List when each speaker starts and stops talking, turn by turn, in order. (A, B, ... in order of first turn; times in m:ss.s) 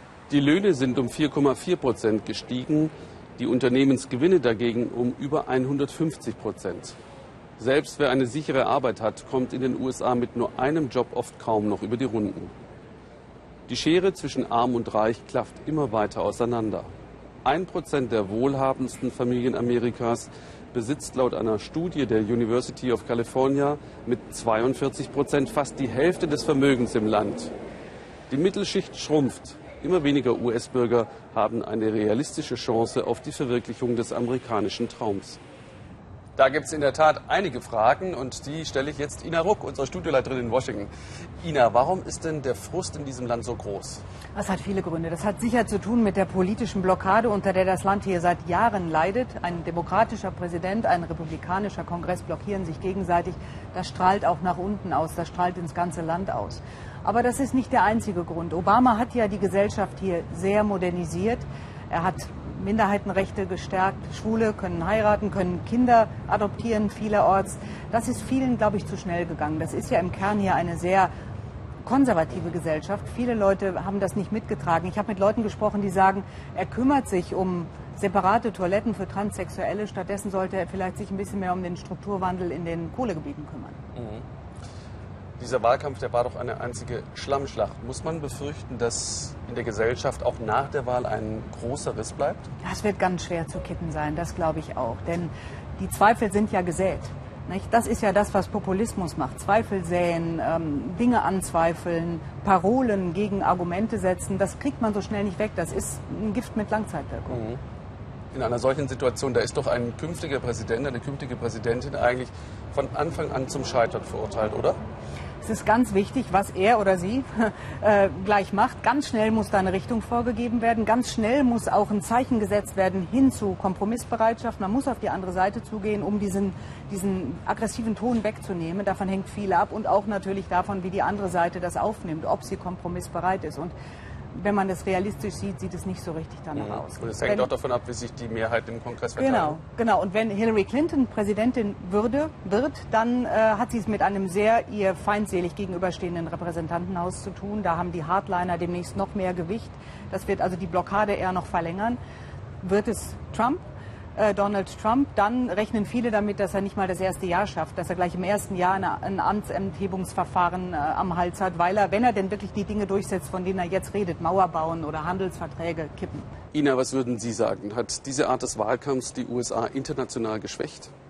0:00.3-0:07.0 A
0:07.6-0:12.5 A
0:13.7-0:16.9 A
0:17.4-0:27.5 A
0:28.3-0:35.4 A
0:36.4-0:44.0 A
0:44.3-1:11.1 B
1:11.8-1:23.8 B
1:23.9-1:24.2 A
1:25.4-1:32.5 A
1:32.6-1:47.4 B
1:47.3-1:47.6 A
1:48.3-1:54.8 A
1:55.4-2:13.7 B
2:14.3-2:17.5 B
2:16.5-2:19.6 A
2:19.2-2:32.0 B
2:32.6-2:33.6 B
2:34.2-2:46.3 B
2:46.5-2:50.9 A